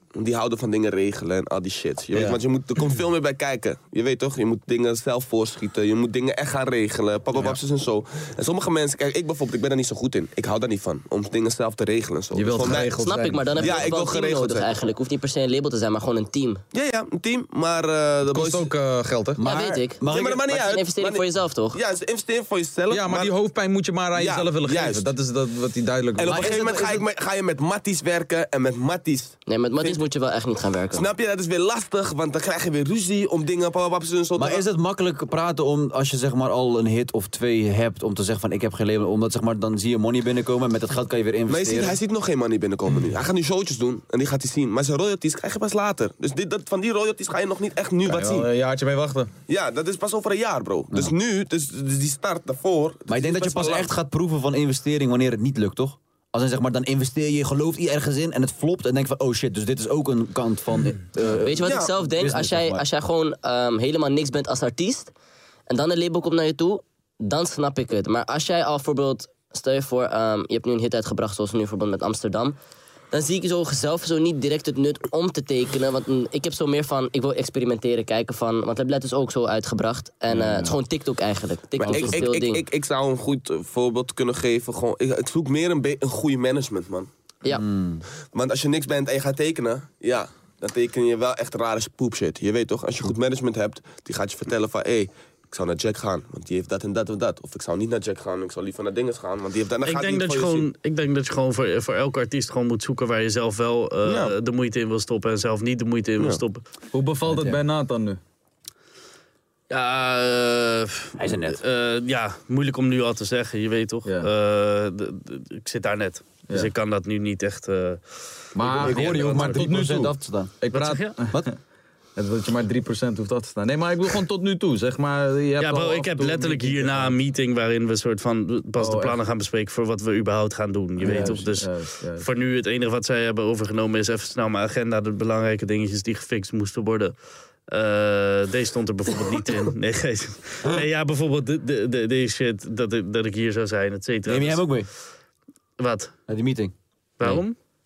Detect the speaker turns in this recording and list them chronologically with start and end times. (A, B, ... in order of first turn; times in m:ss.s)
0:00.1-0:13.0 A
0:12.3-0:13.9 B
0:13.0-0:16.6 C
0:13.6-0:14.8 A
0:16.7-0:18.7 A
0:18.2-0:19.4 B
0:19.4-0:20.4 D
0:19.4-0:21.8 C
0:20.1-0:23.3 A
0:22.9-0:26.8 B
0:24.1-0:25.1 A
0:26.2-0:30.0 A
0:26.2-0:27.0 D
0:29.5-0:31.1 C
0:30.9-0:34.6 A
0:34.4-0:42.0 D
0:41.5-0:48.5 A
0:48.0-0:49.3 B
0:49.5-0:53.9 A
0:53.1-1:02.8 D
1:01.3-1:05.1 C
1:01.6-1:01.9 A
1:05.7-1:12.6 C
1:13.1-1:22.6 C
1:20.3-1:20.7 D
1:21.8-1:27.1 A
1:21.8-1:22.2 D
1:27.5-1:28.0 D
1:28.3-1:40.7 A
1:39.8-1:46.6 E
1:44.0-1:44.3 A
1:46.9-1:48.2 B
1:47.3-1:47.6 D
1:49.7-1:58.0 E
1:51.2-1:51.6 D
1:58.5-2:00.6 D
1:58.6-2:01.5 B
1:58.8-1:59.7 A
1:59.0-1:59.4 E
2:00.7-2:01.2 E
2:02.2-2:07.2 B
2:05.6-2:17.2 E
2:08.8-2:09.2 B
2:11.0-2:12.2 B
2:17.7-2:24.7 E
2:24.2-2:24.9 D
2:25.8-2:26.1 E
2:26.3-2:26.7 D
2:27.2-2:27.6 E